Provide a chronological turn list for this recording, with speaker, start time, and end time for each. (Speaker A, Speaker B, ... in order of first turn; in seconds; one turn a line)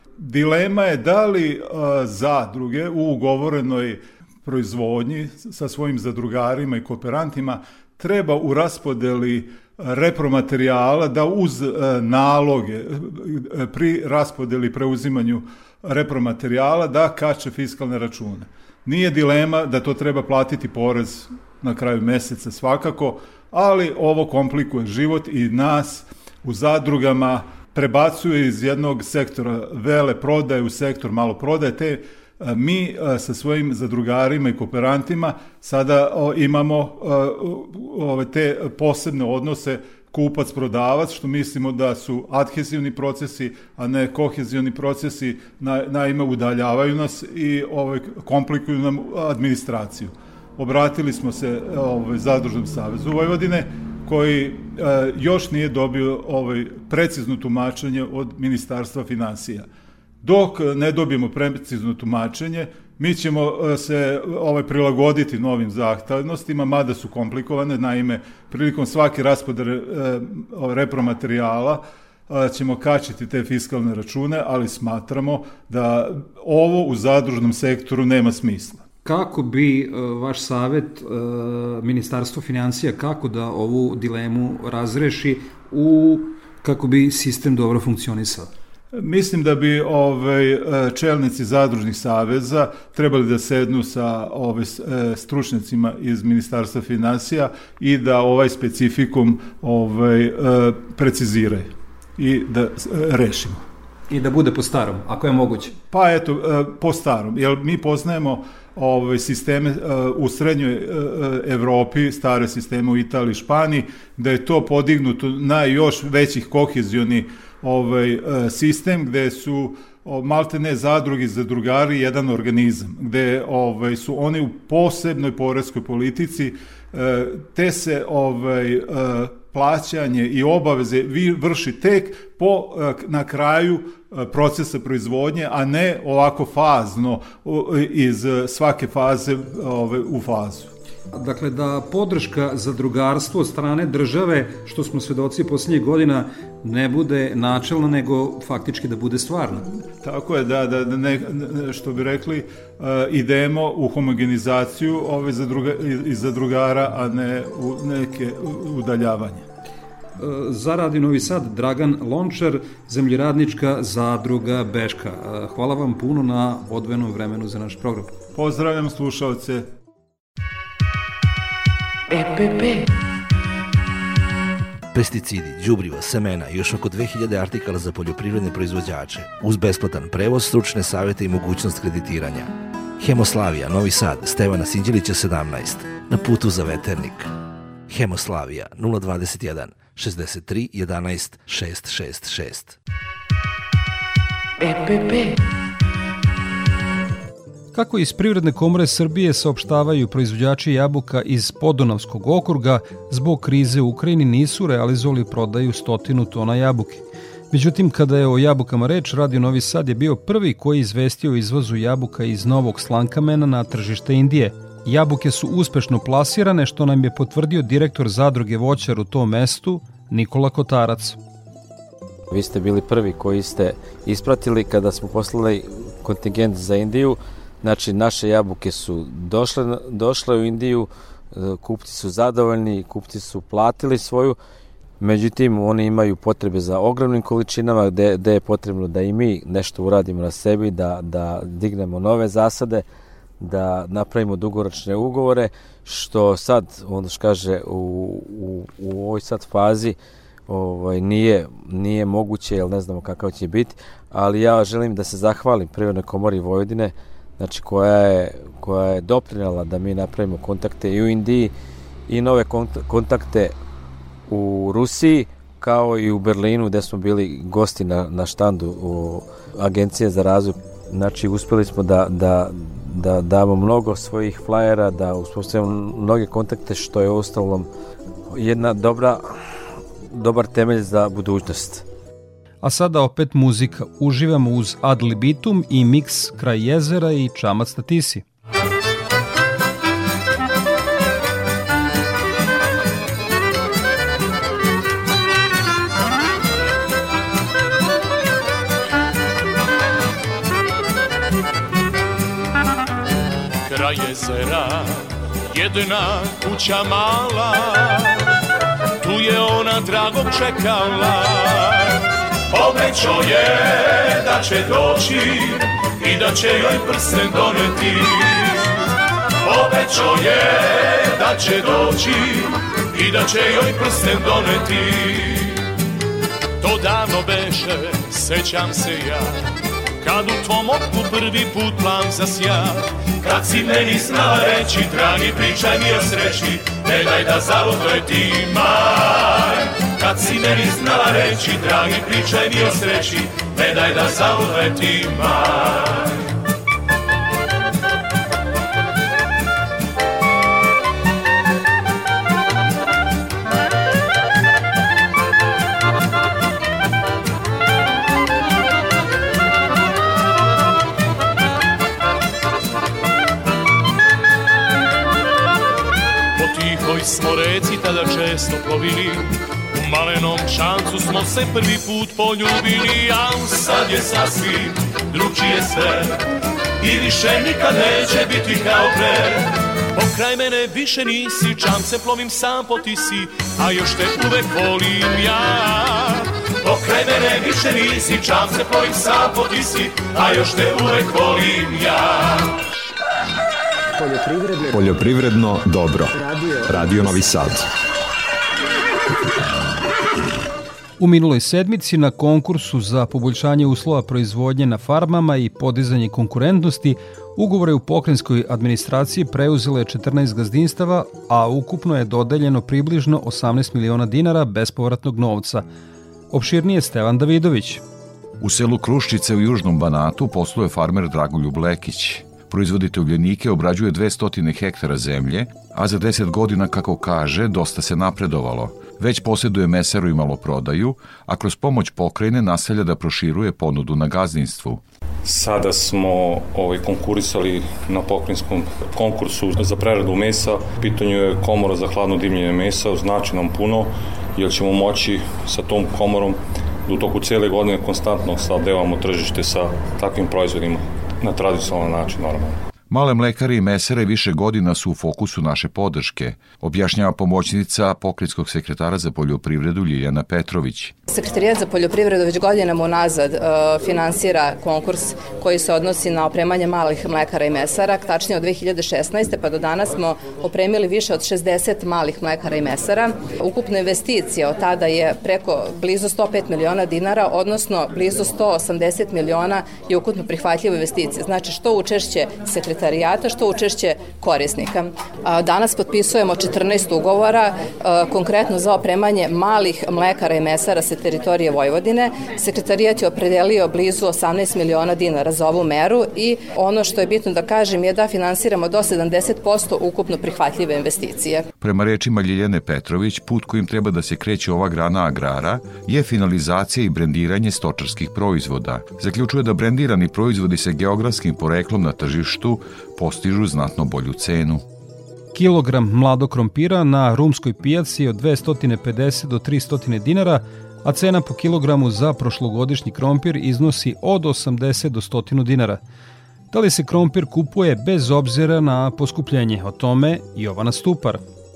Speaker A: 0.2-59.7
Speaker A: 60.2-78.8
Speaker B: 79.0-88.5
Speaker A: 88.9-103.6
Speaker B: 104.1-105.7
Speaker A: 105.9-140.7
Speaker B: 141.1-149.6
Speaker A: 150.0-159.5
Speaker B: 160.2-168.1
Speaker A: 168.3-169.7
Speaker C: 174.9-182.5
Speaker C: 183.0-187.3
Speaker C: 187.9-192.8
Speaker B: 197.7-221.2
Speaker D: 222.3-234.4
Speaker D: 235.0-242.8
Speaker D: 243.4-250.0
Speaker D: 250.5-261.5
Speaker D: 262.1-263.5
Speaker D: 264.3-277.7
Speaker D: 278.3-279.2
Speaker D: 280.1-281.8
Speaker B: 282.6-288.2
Speaker E: 303.6-305.0
Speaker E: 305.5-308.1
Speaker E: 309.0-312.0
Speaker E: 312.5-318.5
Speaker E: 319.4-325.5
Speaker E: 326.6-329.3
Speaker E: 330.0-345.7
Speaker E: 366.4-376.1
Speaker E: 376.8-392.4
Speaker F: 394.0-397.7
Speaker B: 401.0-415.6
Speaker B: 416.3-417.8
Speaker G: 418.4-434.8
Speaker H: 435.2-452.6
Speaker G: 452.9-460.9
Speaker I: 461.1-501.5
Speaker G: 501.6-514.6
Speaker B: 515.3-525.8
Speaker B: 526.5-531.2